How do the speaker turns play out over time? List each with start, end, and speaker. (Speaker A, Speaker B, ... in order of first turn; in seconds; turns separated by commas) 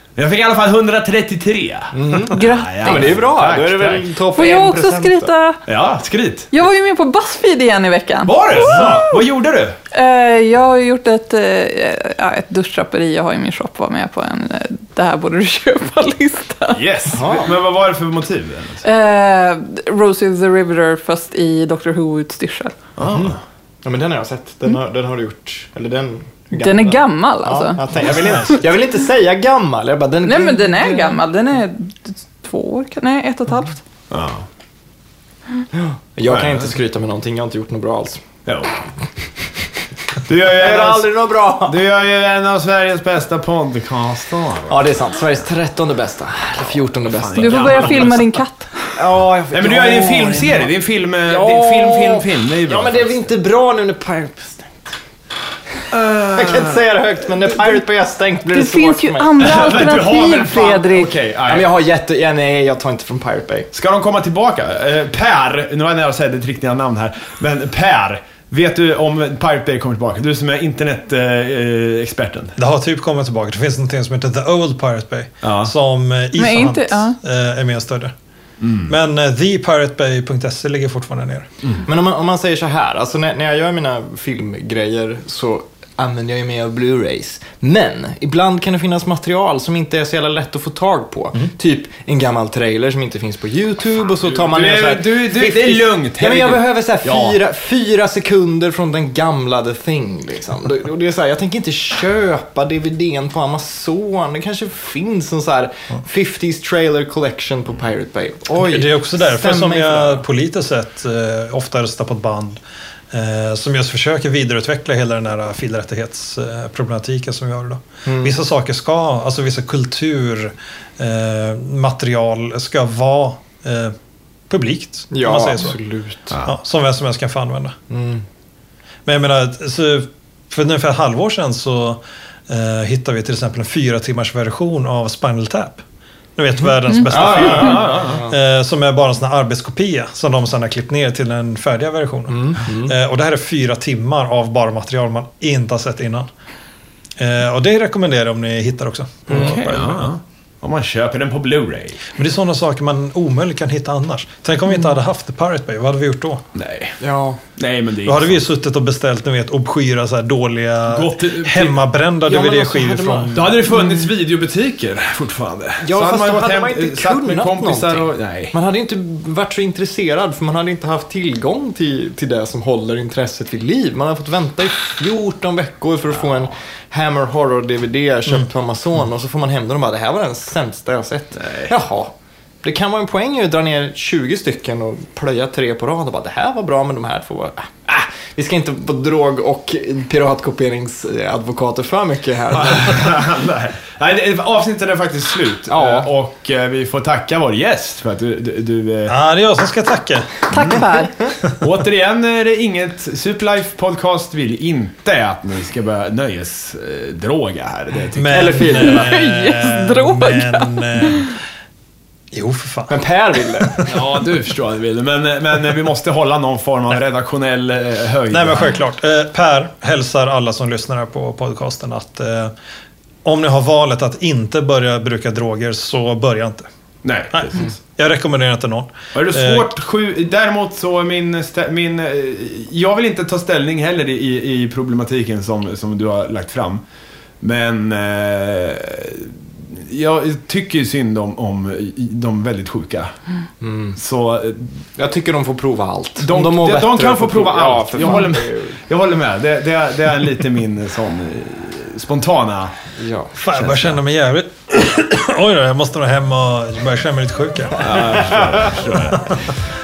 Speaker A: 0.2-4.0, Speaker B: 1.9-5.3, Speaker C: 2.3-3.2, Speaker C: 4.4-5.6, Speaker A: 5.7-6.5, Speaker C: 6.5-9.2, Speaker A: 8.3-9.8, Speaker C: 9.9-16.8, Speaker A: 16.7-18.9, Speaker B: 17.1-17.5, Speaker C: 18.8-22.8, Speaker A: 23.0-23.4, Speaker B: 23.1-31.2, Speaker C: 26.6-28.1, Speaker D: 28.1-28.6, Speaker C: 30.2-33.8, Speaker A: 34.1-34.5, Speaker B: 35.7-38.2, Speaker A: 36.3-36.7, Speaker A: 38.5-38.9, Speaker A: 40.3-44.9, Speaker B: 40.5-41.8, Speaker B: 44.7-48.1, Speaker A: 46.6-48.4, Speaker C: 47.4-48.9, Speaker B: 49.0-50.7, Speaker A: 49.5-53.2, Speaker B: 51.3-54.9, Speaker A: 55.9-56.8, Speaker B: 56.3-63.7, Speaker C: 58.5-61.1, Speaker A: 59.4-61.7, Speaker A: 63.7-72.5, Speaker D: 72.6-78.1, Speaker A: 75.4-75.7, Speaker C: 76.4-77.2, Speaker A: 78.6-78.9, Speaker D: 78.9-81.5, Speaker B: 81.8-110.2, Speaker A: 94.3-97.4, Speaker D: 108.6-124.0, Speaker B: 118.0-118.4, Speaker D: 124.5-125.8, Speaker B: 125.1-126.4, Speaker D: 126.4-127.8, Speaker B: 127.9-128.2, Speaker D: 129.1-135.8, Speaker D: 136.4-146.3, Speaker B: 137.1-138.3, Speaker A: 137.1-138.2, Speaker B: 142.3-142.9, Speaker D: 147.2-150.1, Speaker A: 149.3-152.0, Speaker B: 149.3-149.6, Speaker D: 152.2-156.4, Speaker A: 156.6-157.0, Speaker B: 157.0-157.4, Speaker A: 157.6-158.4, Speaker D: 158.0-163.6, Speaker A: 160.9-161.8, Speaker B: 162.3-163.5, Speaker A: 163.3-168.5, Speaker B: 165.8-193.2, Speaker A: 181.4-181.7, Speaker A: 192.6-199.2, Speaker B: 195.7-196.1, Speaker D: 199.1-200.5, Speaker C: 200.5-201.3, Speaker A: 201.6-208.6, Speaker D: 208.2-211.4, Speaker B: 208.3-209.2, Speaker C: 208.8-211.3, Speaker D: 212.3-212.9, Speaker B: 212.9-214.0, Speaker A: 213.8-218.7, Speaker D: 218.3-222.5, Speaker D: 223.2-226.7, Speaker A: 227.0-227.8, Speaker D: 227.3-229.7, Speaker A: 229.1-236.8, Speaker A: 237.4-243.1, Speaker B: 243.6-244.0, Speaker A: 244.0-244.8, Speaker B: 245.0-248.8, Speaker A: 246.2-252.8, Speaker B: 253.0-254.0, Speaker D: 253.4-258.3, Speaker A: 257.8-259.4, Speaker D: 259.1-259.4